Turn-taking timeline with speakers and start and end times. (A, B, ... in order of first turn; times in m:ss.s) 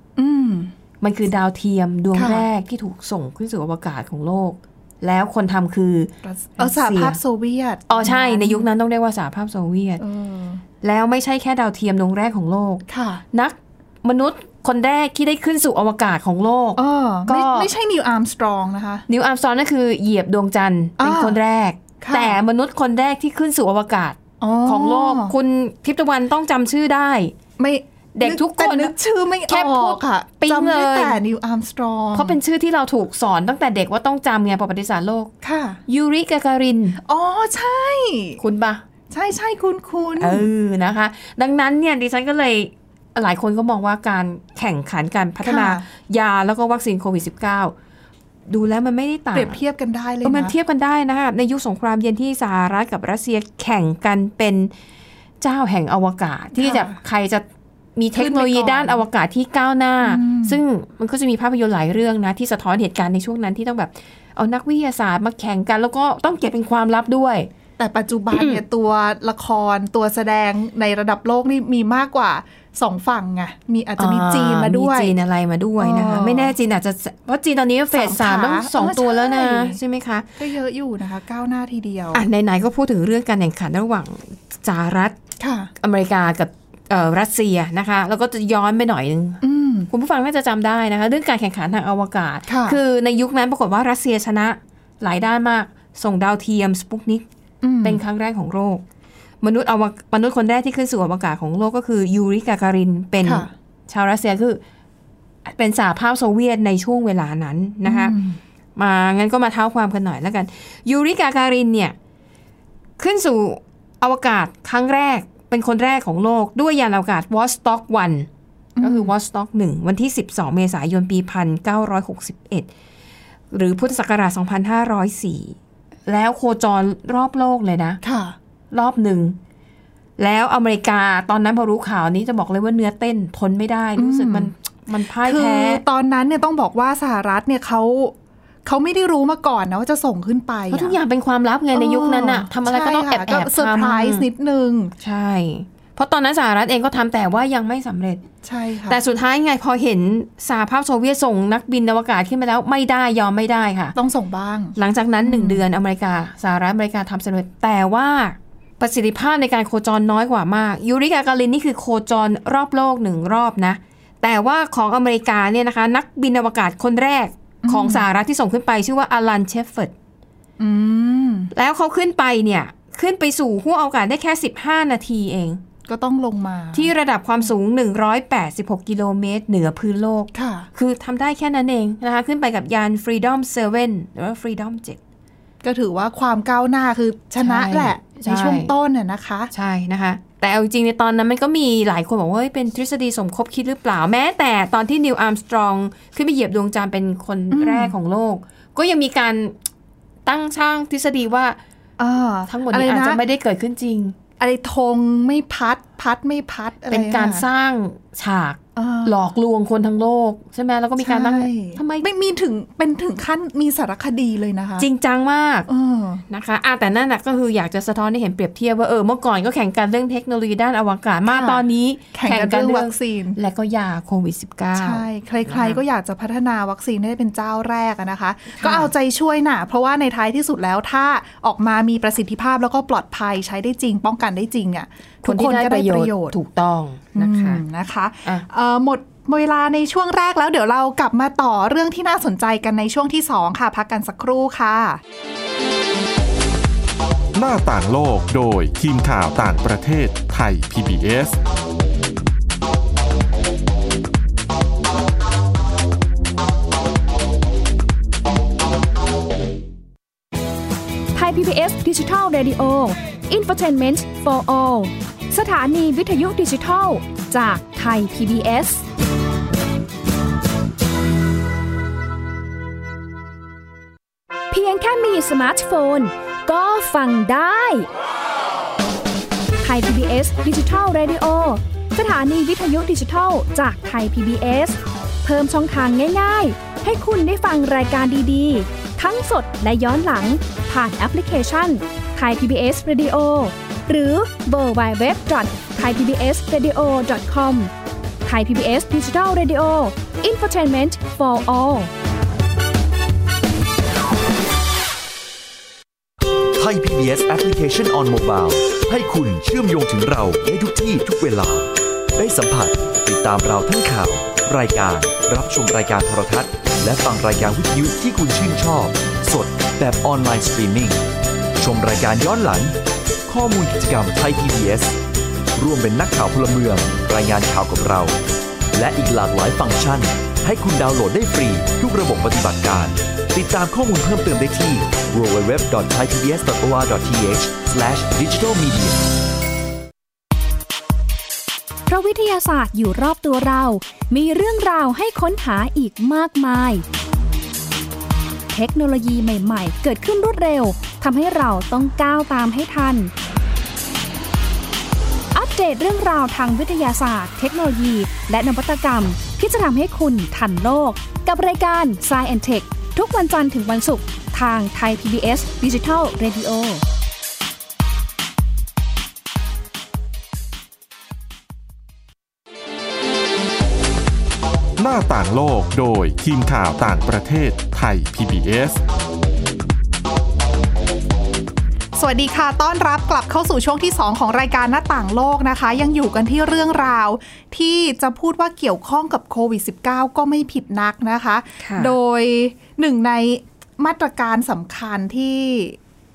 0:00.2-0:00.7 A
0:01.0-0:07.2 B
0:02.1-0:02.4 A
0:06.2-0:08.7 A
0:07.9-0:10.0 B
0:10.0-0:10.6 A
0:10.8-0:17.7 B
0:12.9-0:13.2 A
0:16.8-0:19.0 A
0:19.1-0:27.3 B
0:21.0-0:21.4 A
0:22.0-0:22.4 A
0:24.4-0:25.4 A
0:27.6-0:32.4 A
0:28.2-0:29.0 B
0:29.5-0:31.2 B
0:32.1-0:35.3 B
0:35.4-0:35.8 A
0:35.9-0:37.0 B
0:37.0-0:38.4 A
0:38.4-0:38.8 B
0:39.1-0:40.5 A
0:40.2-0:47.7 B
0:45.4-0:45.8 A
0:48.5-0:49.6 B
0:49.3-0:50.5 A
0:50.2-0:54.7 B
0:55.4-0:57.4 B
0:56.6-0:57.0 A
0:58.0-1:07.5 B
0:58.2-0:59.0 A
1:00.0-1:00.6 A
1:07.8-1:15.2 A
1:08.3-1:08.6 B
1:14.0-1:20.3 B
1:15.8-1:16.5 A
1:17.9-1:19.8 A
1:20.4-1:22.2 A
1:22.1-1:25.2 B
1:25.4-1:25.7 A
1:25.8-1:37.2 B
1:29.4-1:29.9 A
1:32.5-1:32.8 A
1:37.6-1:38.0 A
1:37.8-1:38.8 B
1:39.4-1:44.6 B
1:43.2-1:43.5 A
1:45.4-1:48.2 B
1:47.8-1:48.4 A
1:48.8-1:52.0 B
1:53.0-1:58.3 B
1:58.8-1:59.1 A
1:58.8-2:02.7 B
2:03.5-2:08.0 B
2:08.0-2:08.4 A
2:08.7-2:09.4 B
2:10.2-2:15.8 B
2:14.0-2:14.5 A
2:15.2-2:18.1 A
2:18.6-2:21.0 A
2:20.7-2:24.2 B
2:21.7-2:24.9 A
2:25.0-2:28.2 B
2:28.4-2:29.0 A
2:28.9-2:34.0 B
2:34.0-2:35.6 A
2:34.8-2:49.9 B
2:47.6-2:48.0 A
2:50.6-2:51.5 A
2:51.5-2:55.6 B
2:55.9-2:56.9 A
2:56.7-3:05.0 B
3:00.3-3:00.7 A
3:05.6-3:09.5 A
3:07.4-3:08.7 B
3:09.5-3:19.6 B
3:17.5-3:17.9 A
3:20.2-3:21.6 B
3:22.0-3:23.2 A
3:22.5-3:24.2 B
3:24.4-3:27.4 A
3:26.9-3:32.1 B
3:28.8-3:29.2 A
3:31.0-3:34.9 A
3:34.8-3:35.7 B
3:35.7-3:36.2 A
3:36.3-3:45.8 B
3:41.3-3:43.4 A
3:44.8-3:56.4 A
3:48.6-3:48.9 B
3:55.2-3:57.6 B
3:57.2-4:05.0 A
4:07.4-4:11.4 C
4:21.2-4:28.8 D
4:34.5-4:37.9 D
4:39.6-4:57.7 D
4:58.3-5:01.9 D
5:06.6-5:21.0 E
5:21.6-5:22.8 E
5:23.3-5:25.0 E
5:25.6-5:28.2 E
5:28.7-5:39.0 E
5:41.9-5:46.8 D
5:48.5-5:53.1 D
5:55.3-6:06.8 D
6:14.8-6:18.8 C
6:22.0-6:35.8 A
6:31.6-6:32.0 B